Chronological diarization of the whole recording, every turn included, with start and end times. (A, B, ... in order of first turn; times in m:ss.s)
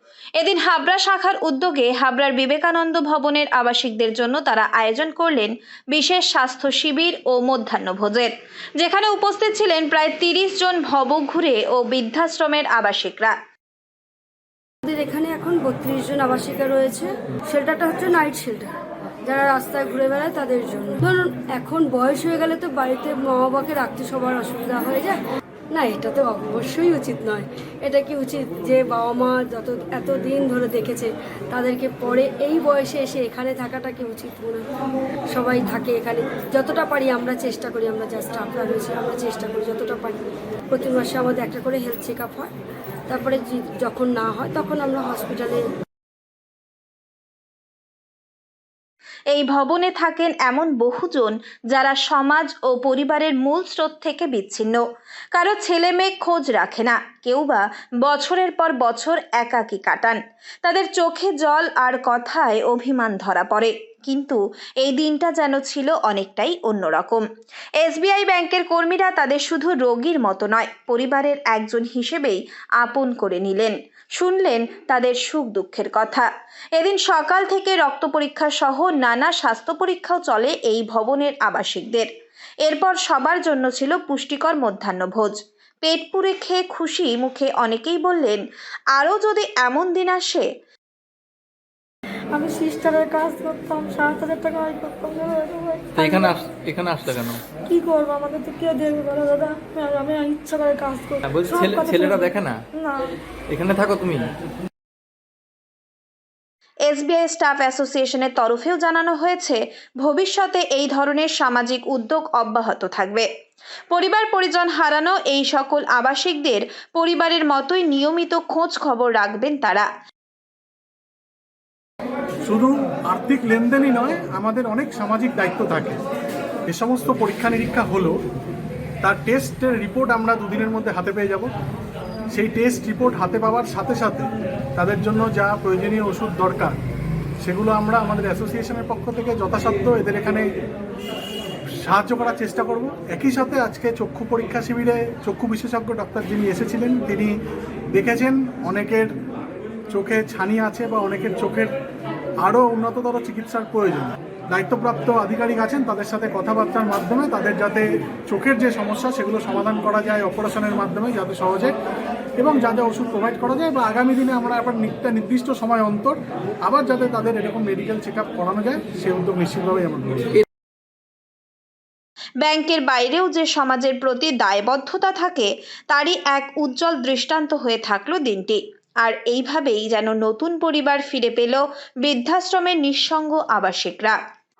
0:00.4-0:13.4 A
0:14.9-0:18.7 B
0:19.3-0:25.2 B
0:25.7-0:34.7 B
0:35.3-0:42.5 B
0:43.1-0:45.7 B
0:49.3-0:54.8 A
0:55.3-1:07.3 A
1:07.8-1:22.1 A
1:22.6-1:28.4 A
1:28.9-1:30.5 A
1:32.4-1:36.4 C
1:36.0-1:37.4 D
1:37.6-1:43.2 C
1:41.3-1:42.6 D
1:43.5-1:44.3 D
1:46.9-1:53.3 A
1:53.9-1:59.9 A
2:02.5-2:06.0 E
2:06.7-2:08.1 E
2:09.0-2:11.5 E
2:12.3-2:16.8 E
2:17.4-2:20.5 E
2:21.8-2:27.4 E
2:27.9-2:29.1 E
2:29.9-2:31.7 E
2:32.4-2:41.8 E
2:42.4-2:50.3 E
2:52.4-3:04.2 A